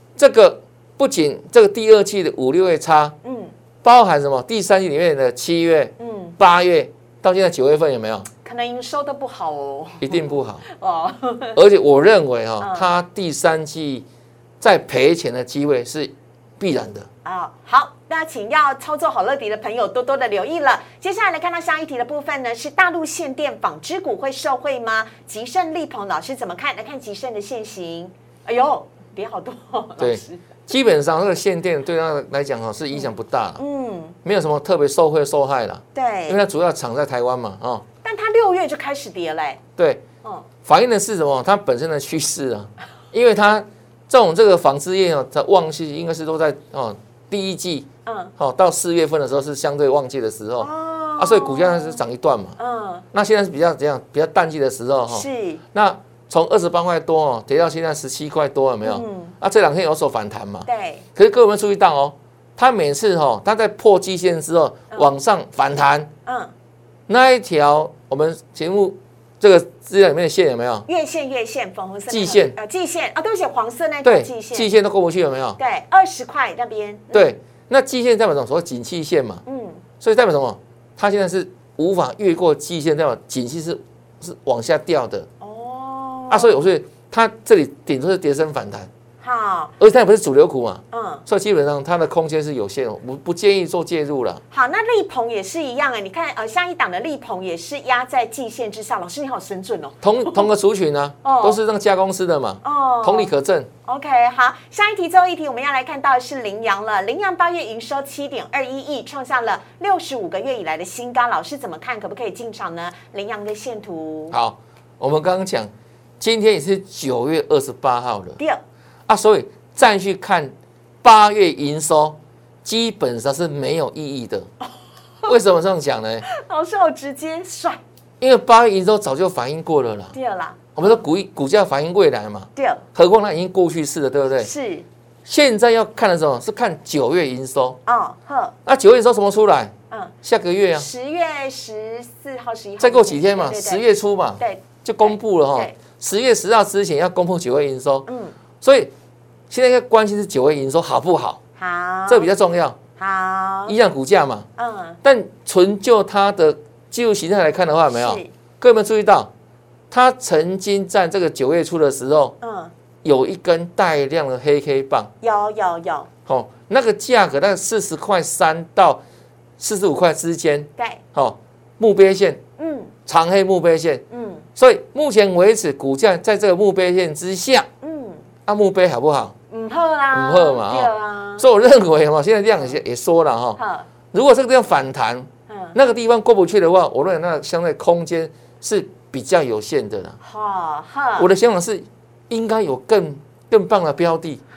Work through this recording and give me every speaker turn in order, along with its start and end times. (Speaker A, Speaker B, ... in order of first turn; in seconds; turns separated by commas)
Speaker A: 0.2-3.1, Speaker B: 3.2-3.5, Speaker A: 3.8-8.3, Speaker B: 6.0-6.4, Speaker B: 8.4-11.6, Speaker A: 10.0-10.6, Speaker A: 11.5-14.1, Speaker B: 12.6-12.9, Speaker A: 14.6-17.1, Speaker B: 17.2-30.5, Speaker A: 30.0-33.6, Speaker B: 32.9-34.1, Speaker A: 34.2-37.8, Speaker B: 35.9-36.4, Speaker B: 38.0-39.6, Speaker A: 39.8-40.0, Speaker A: 40.6-52.6, Speaker B: 48.0-48.3, Speaker B: 50.6-52.0, Speaker B: 52.6-53.0, Speaker A: 53.1-66.1, Speaker B: 55.1-55.6, Speaker B: 58.8-59.3, Speaker B: 60.6-61.0, Speaker B: 66.2-66.5, Speaker A: 67.1-70.8, Speaker B: 70.9-74.7, Speaker A: 72.1-72.5, Speaker A: 74.0-75.6, Speaker B: 75.6-77.3, Speaker A: 77.1-79.4, Speaker B: 79.5-79.8, Speaker A: 80.0-85.3, Speaker B: 85.4-86.6, Speaker A: 86.3-88.9, Speaker B: 89.2-89.7, Speaker A: 89.8-94.4, Speaker B: 90.9-91.2, Speaker B: 94.5-100.5, Speaker A: 100.0-103.7, Speaker B: 101.2-101.6, Speaker B: 102.6-103.3, Speaker B: 103.8-114.3, Speaker A: 114.3-118.4, Speaker A: 119.1-124.5, Speaker A: 125.2-126.2, Speaker B: 126.2-127.8, Speaker A: 128.2-130.1, Speaker B: 130.1-130.9, Speaker A: 130.8-134.5, Speaker B: 132.6-132.8, Speaker B: 134.4-134.8, Speaker A: 135.2-137.8, Speaker B: 137.8-138.5, Speaker A: 138.7-140.9, Speaker B: 140.7-143.8, Speaker A: 142.8-148.1, Speaker B: 144.4-145.7, Speaker B: 148.1-148.3, Speaker A: 148.6-148.9, Speaker A: 149.5-151.4, Speaker B: 151.6-152.3, Speaker A: 152.1-152.8, Speaker B: 153.0-153.7, Speaker A: 153.7-154.5, Speaker B: 154.6-155.0, Speaker A: 155.0-159.3, Speaker B: 157.9-158.3, Speaker A: 159.9-162.3, Speaker B: 162.4-162.7, Speaker A: 163.0-165.1, Speaker B: 165.2-166.1, Speaker A: 166.2-169.0, Speaker A: 169.6-172.4, Speaker B: 170.8-171.0, Speaker B: 172.6-172.9, Speaker A: 173.1-174.0, Speaker B: 174.1-174.4, Speaker A: 174.6-177.7, Speaker B: 177.8-178.2, Speaker A: 178.5-179.3, Speaker B: 179.5-181.4, Speaker A: 180.1-183.6, Speaker B: 183.6-183.9, Speaker A: 184.1-190.2, Speaker B: 185.5-185.8, Speaker B: 190.2-191.3, Speaker A: 191.2-194.4